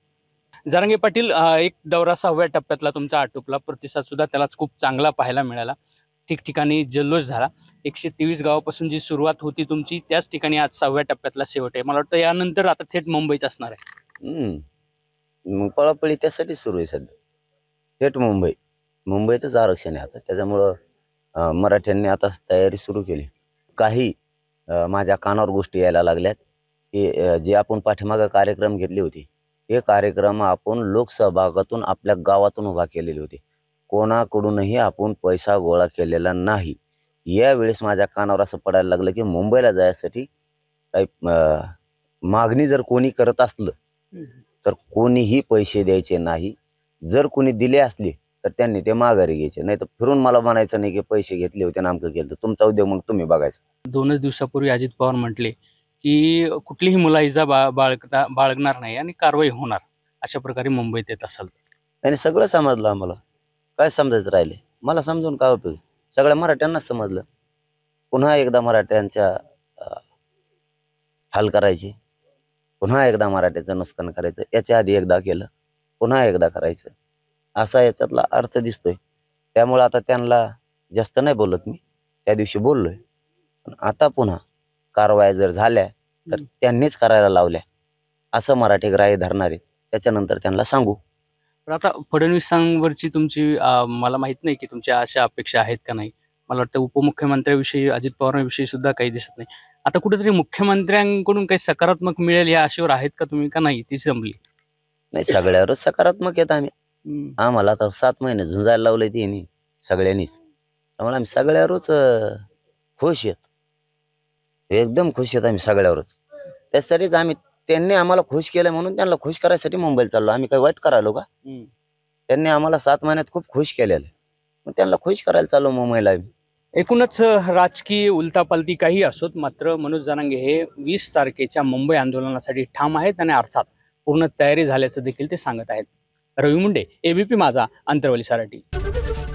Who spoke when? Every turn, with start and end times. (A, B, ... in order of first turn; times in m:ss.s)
0:00.7-0:05.7 A
0:06.3-0:13.8 A
0:14.2-0:14.6 B
0:15.5-0:17.1 B
0:18.0-0:18.5 B
0:19.1-0:20.7 B
0:21.4-0:24.1 B
0:24.7-0:26.4 B
0:26.9-0:40.3 B
0:40.9-0:41.8 B
0:42.3-0:43.7 B
0:44.6-0:46.5 B
0:47.1-0:53.6 B
0:53.9-1:01.5 A
1:02.0-1:03.2 B
1:03.8-1:07.2 B
1:08.1-1:10.0 B
1:11.3-1:11.9 B
1:12.8-1:15.5 B
1:16.0-1:16.9 B
1:17.6-1:19.0 B
1:19.5-1:23.0 B
1:23.6-1:24.4 B
1:24.9-1:27.6 B
1:28.3-1:31.0 B
1:31.7-1:44.4 A
1:45.1-1:46.7 B
1:47.0-1:47.4 A
1:47.4-1:50.4 B
1:51.0-1:52.4 B
1:53.0-1:53.4 B
1:54.7-1:56.2 B
1:56.7-2:01.2 B
2:02.3-2:04.1 B
2:04.6-2:06.3 B
2:06.8-2:15.9 A
2:16.4-2:18.6 A